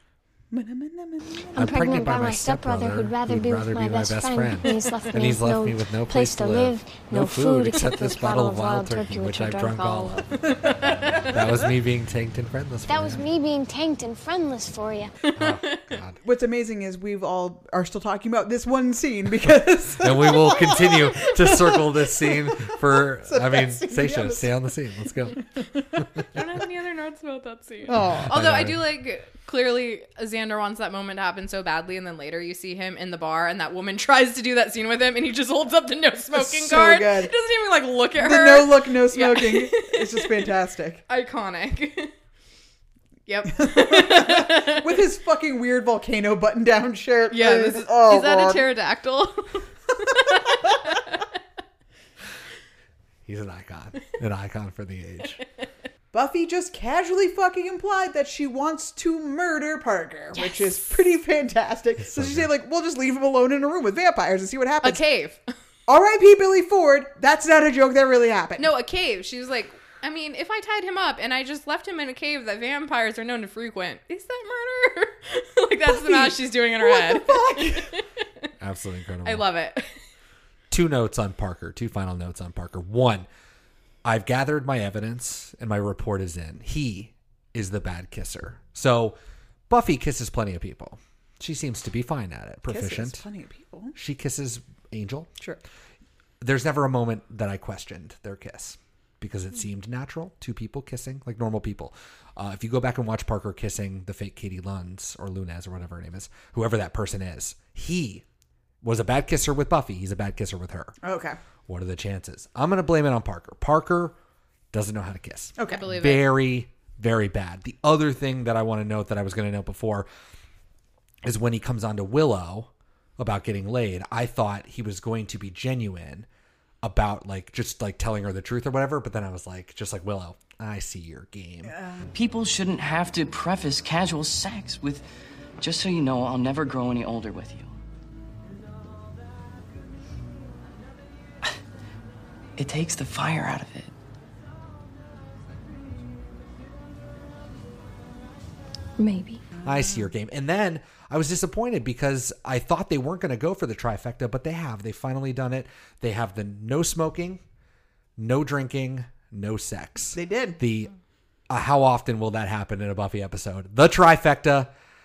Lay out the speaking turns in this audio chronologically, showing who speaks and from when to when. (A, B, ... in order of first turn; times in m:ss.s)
0:00.5-0:01.6 A
0:01.6-0:10.5 B
0:01.6-0:13.3 C
0:10.6-0:11.3 D
0:12.9-0:15.1 B
0:15.3-0:15.8 D
0:15.4-0:16.2 C
0:16.2-0:24.7 A
0:20.0-0:25.4 C
0:26.3-0:40.4 D
0:27.9-0:28.4 A
0:27.9-0:28.8 C
0:36.3-0:37.3 A
0:38.2-0:41.0 A
0:41.1-0:42.1 D
0:43.3-0:45.0 D
0:43.5-0:48.6 A
0:47.3-0:51.2 D
0:53.3-0:55.4 C
0:56.1-1:05.0 A
1:00.4-1:00.8 D
1:02.0-1:02.5 C
1:04.8-1:05.4 D
1:05.9-1:08.7 A
1:08.6-1:18.2 D
1:15.9-1:17.9 A
1:18.6-1:19.5 C
1:19.2-1:20.0 D
1:20.7-1:23.3 C
1:24.0-1:29.2 C
1:29.7-1:33.2 C
1:32.7-1:34.0 A
1:34.0-1:35.3 C
1:36.4-1:48.2 C
1:48.8-1:51.0 C
1:51.0-1:51.4 A
1:51.7-1:54.2 C
1:54.7-2:00.1 C
1:55.6-1:55.8 A
1:55.7-1:56.3 D
2:01.2-2:06.3 C
2:06.8-2:11.8 C
2:11.6-2:12.0 A
2:12.1-2:15.0 E
2:15.6-2:17.7 E
2:22.6-2:23.9 E
2:29.0-2:29.4 B
2:29.6-2:37.4 C
2:38.2-2:40.9 C
2:40.1-2:40.6 A
2:41.5-2:44.7 C